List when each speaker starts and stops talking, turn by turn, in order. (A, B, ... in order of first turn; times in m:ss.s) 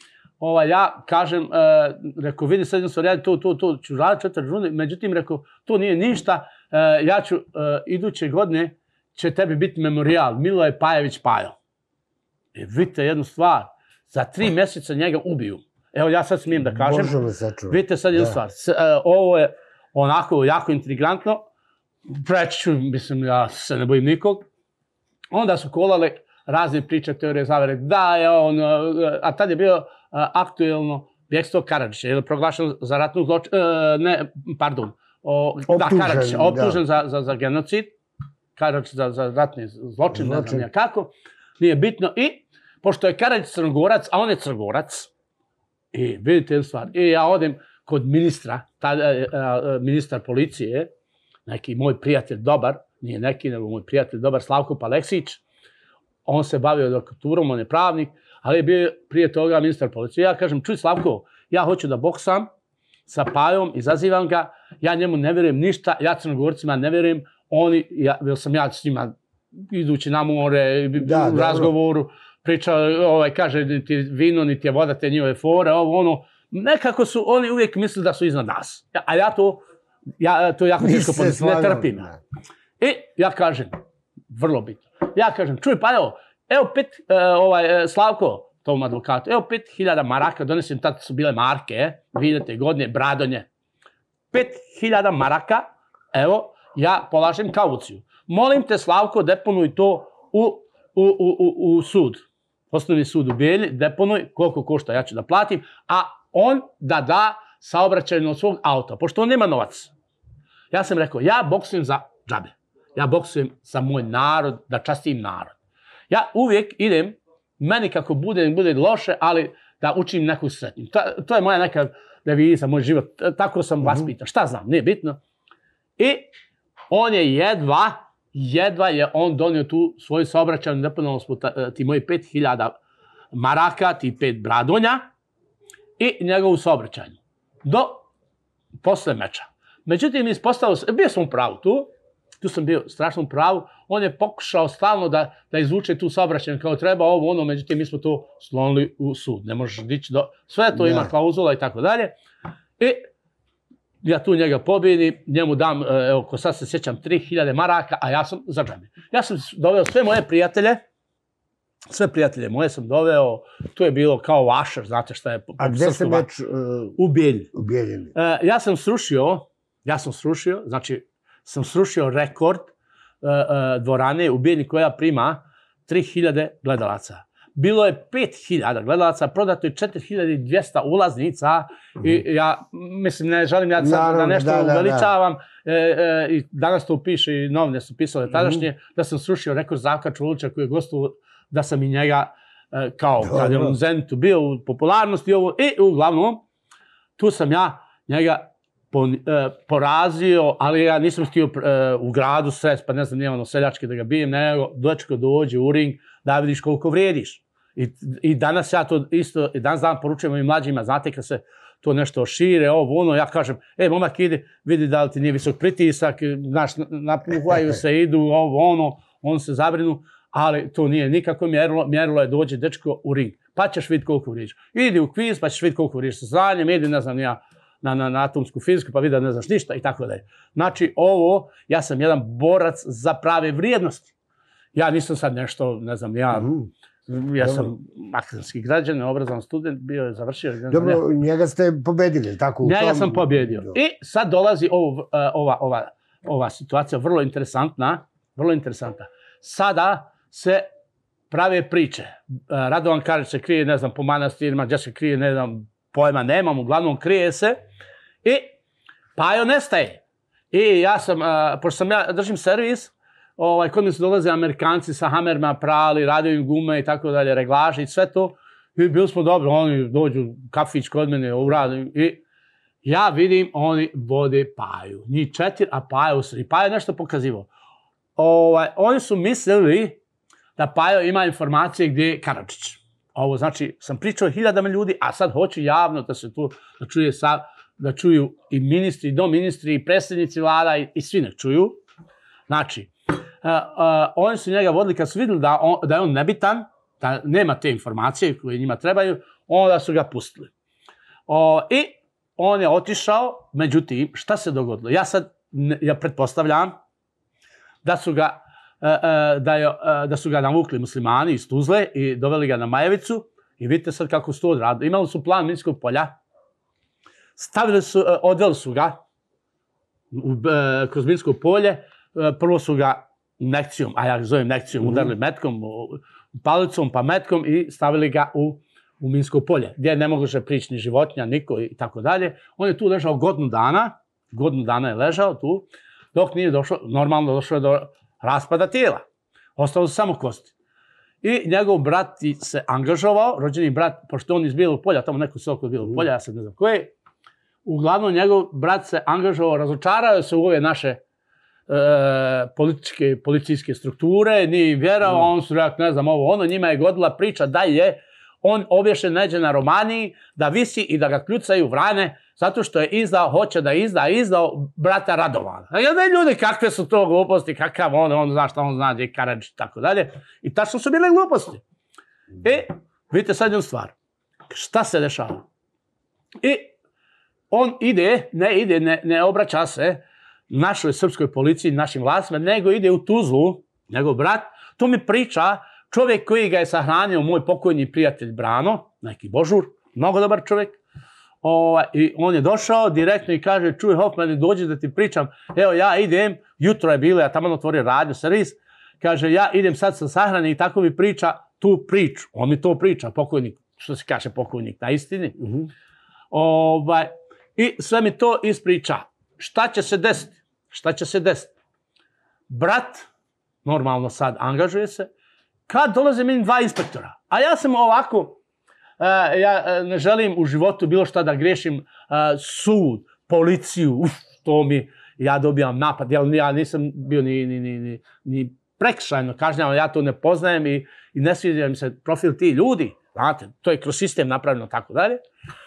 0:00.4-0:11.6 A
0:12.5-0:17.2 A
0:16.6-0:18.4 B
0:17.7-0:21.5 A
0:22.1-0:24.4 A
0:25.3-0:37.9 A
0:35.7-0:36.8 B
0:38.6-0:45.1 A
0:40.1-0:40.6 B
0:45.9-0:50.9 A
0:51.5-0:55.4 A
0:56.2-1:02.5 A
1:03.1-1:19.6 A
1:11.0-1:11.7 B
1:20.2-1:22.1 A
1:20.8-1:22.2 B
1:22.8-1:23.8 A
1:24.3-1:33.5 A
1:34.3-1:49.9 A
1:50.7-1:55.6 A
1:56.1-2:05.2 A
2:06.0-2:06.3 A
2:06.9-2:12.8 A
2:13.3-2:15.0 A
2:16.0-2:18.0 A
2:18.8-2:32.1 A
2:32.8-2:33.0 A
2:34.0-2:40.8 A
2:41.9-2:46.3 A
2:45.6-2:47.0 B
2:47.0-2:47.5 A
2:47.5-2:48.1 B
2:48.1-3:16.4 A
3:03.8-3:05.1 B
3:13.2-3:13.8 B
3:17.2-3:54.1 A
3:54.7-3:56.6 A
3:56.4-3:56.6 B
3:57.1-4:01.0 A
3:57.4-3:57.7 B
4:00.7-4:03.7 B
4:02.6-4:10.7 A
4:11.3-4:17.6 A
4:18.2-4:18.5 A
4:19.2-4:32.2 A
4:32.8-4:37.5 A
4:38.2-4:40.0 A
4:40.6-4:51.8 A
4:52.5-4:52.9 A
4:53.4-5:00.5 A
5:01.3-5:06.8 A
5:07.8-5:16.1 A
5:17.4-5:19.0 A
5:20.1-5:39.0 A
5:39.6-5:40.5 A
5:41.2-5:46.9 A
5:47.6-5:51.0 A
5:51.7-6:11.6 A
6:12.4-6:14.0 A
6:14.5-6:15.5 A
6:16.4-6:16.7 A
6:17.5-6:30.8 A
6:31.4-6:45.6 A
6:46.3-6:51.5 A
6:52.5-6:53.1 A
6:53.6-6:55.1 A
6:55.7-6:58.4 A
6:59.0-7:15.2 A